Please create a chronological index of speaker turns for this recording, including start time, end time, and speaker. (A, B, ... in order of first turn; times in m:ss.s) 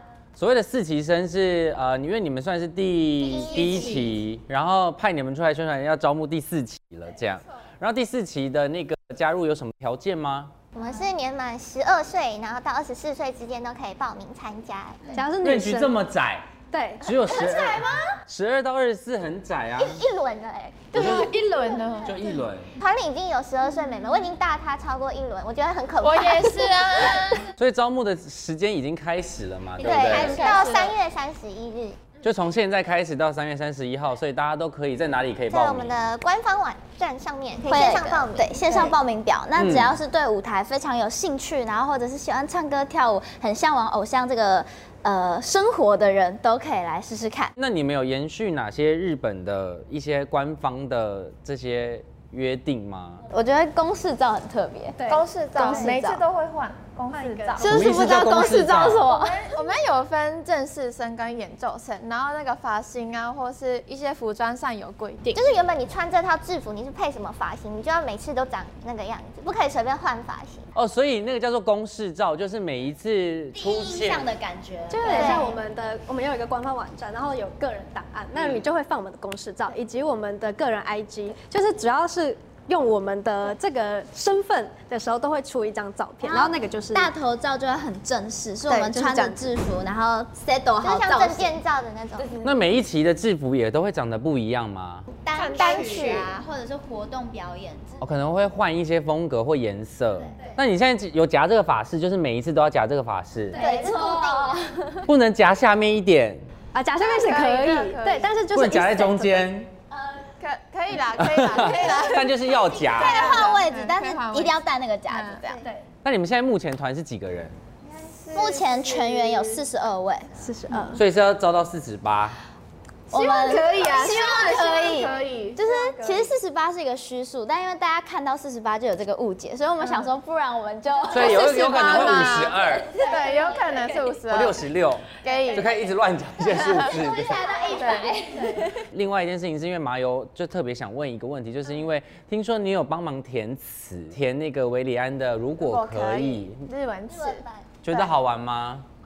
0:00.4-0:10.5 A
0:03.2-0:04.1 B
0:10.7-0:15.2 B
0:15.1-0:16.0 C
0:15.4-0:16.5 A
0:16.7-0:17.2 C
0:17.0-0:20.1 A
0:17.2-0:17.9 D
0:19.8-0:21.0 B
0:20.9-0:22.4 E
0:20.9-0:21.3 A
0:22.0-0:22.7 A
0:22.8-0:26.8 B
0:26.0-0:27.5 E
0:27.5-0:30.5 A
0:29.8-0:30.9 D
0:29.8-0:32.0 B
0:30.4-0:30.7 E
0:32.2-0:36.1 A
0:35.5-0:38.9 B
0:37.6-0:47.5 D
0:39.6-0:40.0 A
0:47.6-0:53.2 A
0:53.3-0:56.2 D
0:55.0-0:56.0 C
0:55.1-0:57.9 E
0:57.1-0:58.0 C
0:57.6-0:59.5 D
0:57.7-0:59.0 A
0:59.1-1:05.5 E
1:05.3-1:10.6 B
1:10.7-1:14.3 A
1:13.5-1:15.6 D
1:14.9-1:27.1 C
1:15.1-1:15.5 B
1:26.2-1:31.6 D
1:28.7-1:29.5 C
1:30.8-1:32.3 B
1:32.4-1:35.0 A
1:35.2-1:38.0 D
1:35.3-1:36.4 E
1:35.6-1:36.4 B
1:38.0-1:43.6 A
1:43.5-1:43.9 C
1:43.5-1:45.0 D
1:43.6-1:44.4 B
1:45.0-1:46.4 A
1:46.7-1:49.4 C
1:47.0-1:48.3 E
1:48.5-1:49.7 A
1:50.4-1:55.6 E
1:51.2-1:53.4 A
1:52.8-1:55.6 D
1:56.0-1:57.5 A
1:57.8-1:59.6 E
1:58.3-2:00.5 D
2:00.4-2:01.0 C
2:00.9-2:02.4 A
2:03.1-2:13.8 D
2:03.1-2:06.3 E
2:09.8-2:10.1 E
2:11.1-2:12.9 A
2:11.1-2:14.6 E
2:14.3-2:17.4 A
2:15.2-2:15.7 E
2:16.8-2:18.8 D
2:17.8-2:18.6 E
2:18.7-2:26.6 A
2:25.6-2:28.1 E
2:27.2-2:27.7 B
2:27.8-2:28.8 A